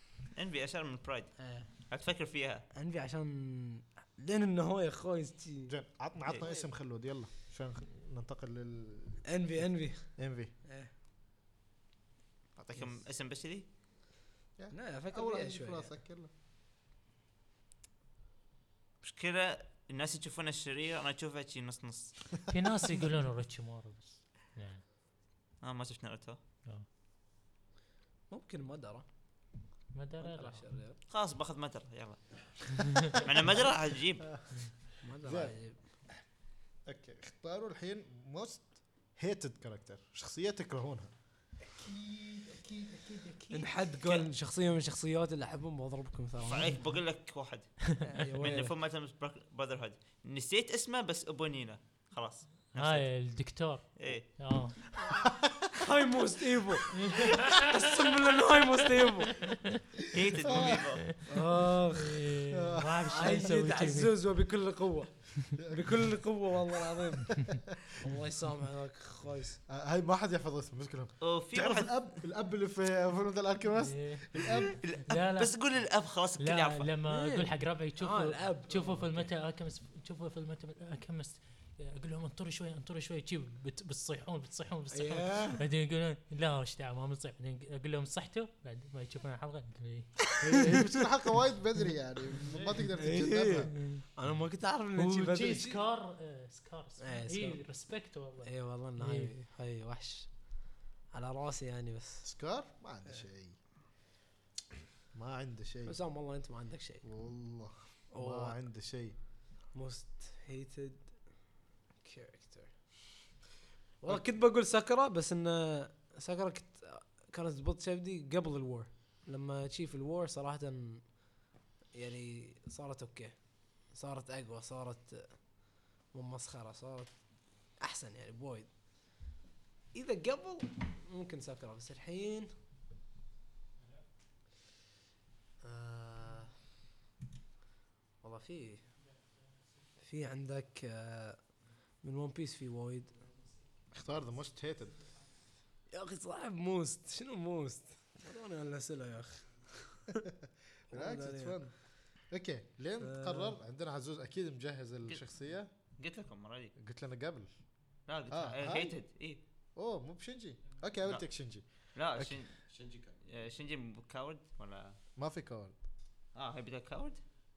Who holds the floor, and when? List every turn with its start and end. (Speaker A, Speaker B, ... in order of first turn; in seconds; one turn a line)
Speaker A: 0.3-2.6
Speaker B: 1.4-1.7
Speaker B: 2.7-5.7
Speaker C: 5.7-9.2
Speaker B: 6.4-6.7
Speaker B: 9.2-10.9
Speaker C: 10.2-10.5
Speaker A: 12.6-13.6
Speaker C: 14.6-16.3
Speaker B: 14.7-16.0
Speaker A: 19.0-22.5
Speaker D: 22.5-24.8
Speaker A: 25.6-26.4
Speaker B: 28.3-29.1
Speaker D: 29.9-30.6
Speaker B: 30.2-31.0
Speaker A: 31.1-34.2
Speaker B: 35.0-35.8
Speaker C: 35.2-35.6
Speaker C: 36.9-41.1
Speaker D: 41.8-43.7
Speaker B: 43.5-46.8
Speaker A: 46.4-53.2
Speaker B: 48.0-48.7
Speaker D: 52.7-54.8
Speaker A: 54.0-54.5
Speaker C: 55.1-55.6
Speaker B: 55.8-59.5
Speaker D: 57.0-57.7
Speaker D: 59.4-59.8
Speaker A: 60.1-61.1
Speaker C: 60.3-60.9
Speaker B: 61.3-62.2
Speaker D: 62.0-64.1
Speaker C: 62.5-63.5
Speaker B: 63.1-67.5
Speaker C: 65.6-66.1
Speaker B: 68.0-69.6
Speaker C: 69.7-74.8
Speaker A: 71.2-72.0
Speaker D: 73.8-75.6
Speaker A: 74.8-76.9
Speaker D: 76.4-90.3
Speaker B: 77.1-79.3
Speaker B: 84.9-85.6
Speaker C: 90.4-93.7
Speaker B: 90.4-90.9
Speaker B: 93.0-95.8
Speaker D: 93.7-94.0
Speaker D: 94.9-99.3
Speaker B: 97.0-97.8
Speaker B: 98.4-102.3
Speaker C: 102.2-103.6
Speaker C: 105.1-106.0
Speaker B: 105.8-107.0
Speaker C: 107.0-109.1
Speaker B: 108.1-108.6
Speaker B: 109.7-113.0
Speaker B: 114.0-121.4
Speaker B: 121.9-128.7
Speaker B: 129.9-132.5
Speaker B: 135.6-136.5
Speaker B: 138.2-138.9
Speaker B: 140.0-143.2
Speaker C: 143.9-145.0
Speaker B: 145.9-150.2
Speaker C: 150.9-155.7
Speaker B: 150.9-151.6
Speaker B: 153.0-153.6
Speaker A: 156.0-156.7
Speaker C: 156.8-157.5
Speaker A: 158.1-159.4
Speaker C: 158.3-159.0
Speaker C: 159.8-162.8
Speaker A: 161.9-164.9
Speaker C: 165.2-165.8
Speaker A: 166.3-167.3